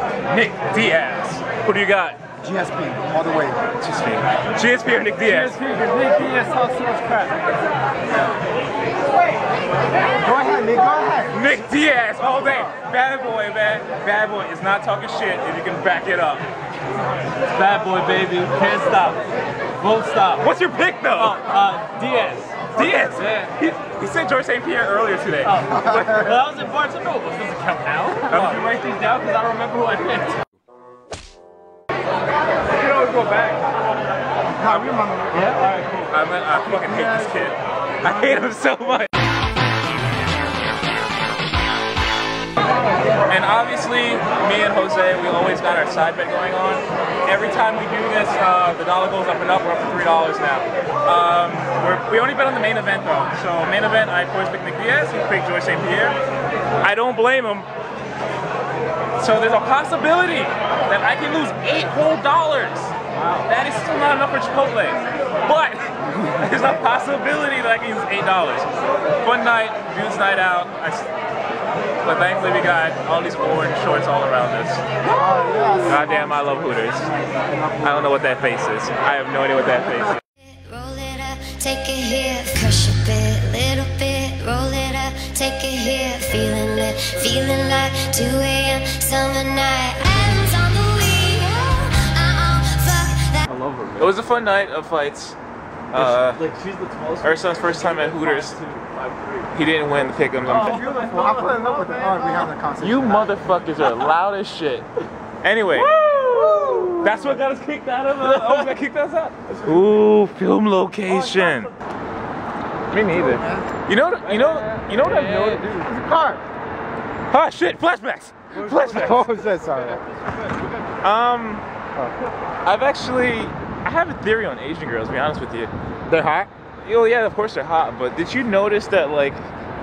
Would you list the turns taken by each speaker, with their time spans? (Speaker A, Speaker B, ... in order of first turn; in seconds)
Speaker A: 0.3-2.2, 3.8-5.5, 11.3-16.4, 20.4-21.5, 22.7-25.6, 28.3-28.6, 36.1-39.1, 43.3-56.2, 56.8-57.7, 59.2-68.7, 69.2-71.1, 72.0-74.8, 75.9-77.1, 77.8-80.2, 94.0-95.4, 95.9-96.4, 97.2-98.6, 99.5-100.8, 102.8-104.9, 105.4-111.7, 112.9-115.7, 117.3-119.3, 121.0-121.7, 122.7-125.7, 126.8-129.4
Speaker B: 2.4-3.6, 10.2-11.6, 25.6-26.5, 34.6-35.6, 75.0-76.7, 77.5-78.1, 100.5-103.3, 115.7-116.4, 118.9-120.0, 126.1-126.5
Speaker C: 5.2-7.4, 17.5-19.2, 19.8-20.5, 21.1-23.5, 25.4-30.4, 32.8-33.6, 35.3-36.1, 63.2-63.5, 93.5-94.1, 95.9-99.5, 100.2-102.5, 105.7-107.4, 108.2-108.7, 111.1-111.7, 114.2-115.9, 118.5-120.6
Speaker D: 80.4-93.4